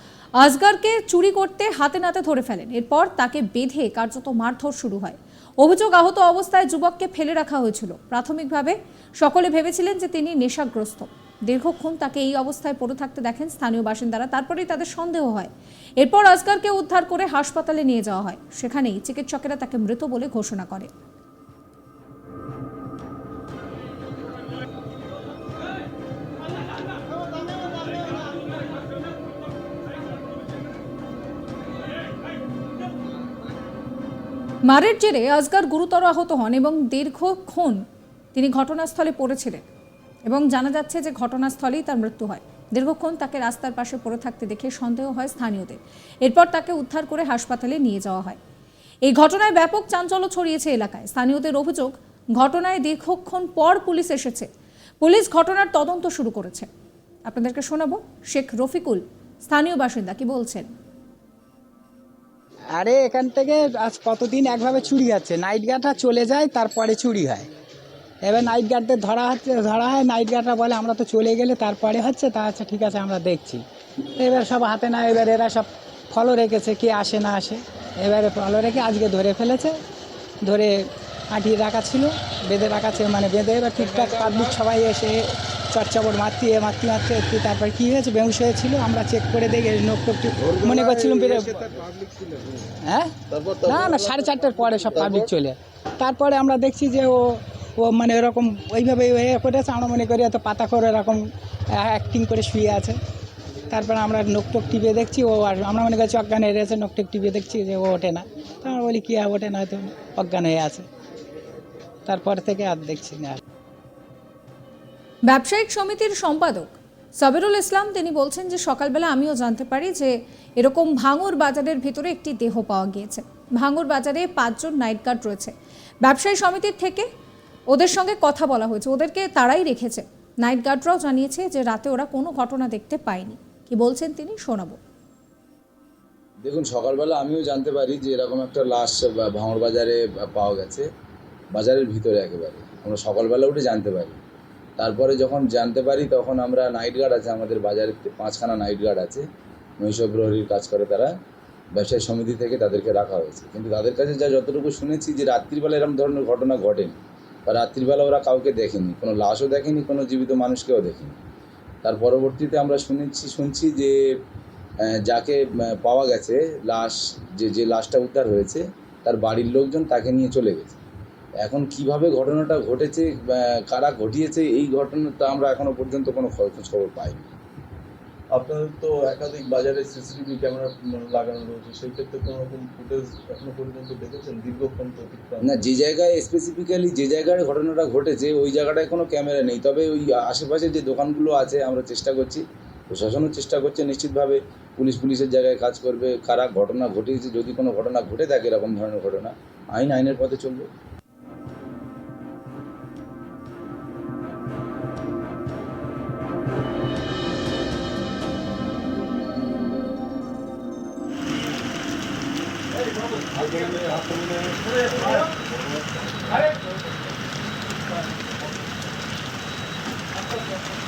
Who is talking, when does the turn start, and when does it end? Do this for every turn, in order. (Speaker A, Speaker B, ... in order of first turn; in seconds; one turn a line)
Speaker A: 0.4-20.9
Speaker A: 34.7-37.8
Speaker A: 38.3-39.6
Speaker A: 40.3-48.4
Speaker A: 49.0-54.5
Speaker A: 55.0-56.7
Speaker A: 57.3-60.7
Speaker B: 62.8-67.5
Speaker B: 68.2-73.6
Speaker B: 74.2-79.8
Speaker B: 80.4-91.5
Speaker C: 90.4-92.6
Speaker B: 92.8-93.1
Speaker C: 93.3-95.3
Speaker B: 93.7-103.0
Speaker B: 103.7-110.8
Speaker B: 112.0-113.4
Speaker A: 115.3-127.1
Speaker A: 127.7-134.8
Speaker D: 136.4-140.9
Speaker D: 141.5-144.2
Speaker D: 144.8-149.3
Speaker D: 149.8-151.2
Speaker D: 151.7-161.2
Speaker D: 161.8-163.9
Speaker D: 164.8-170.8
Speaker D: 171.4-177.3
Speaker C: 178.3-185.5
Speaker D: 185.4-200.7
Speaker C: 213.3-215.8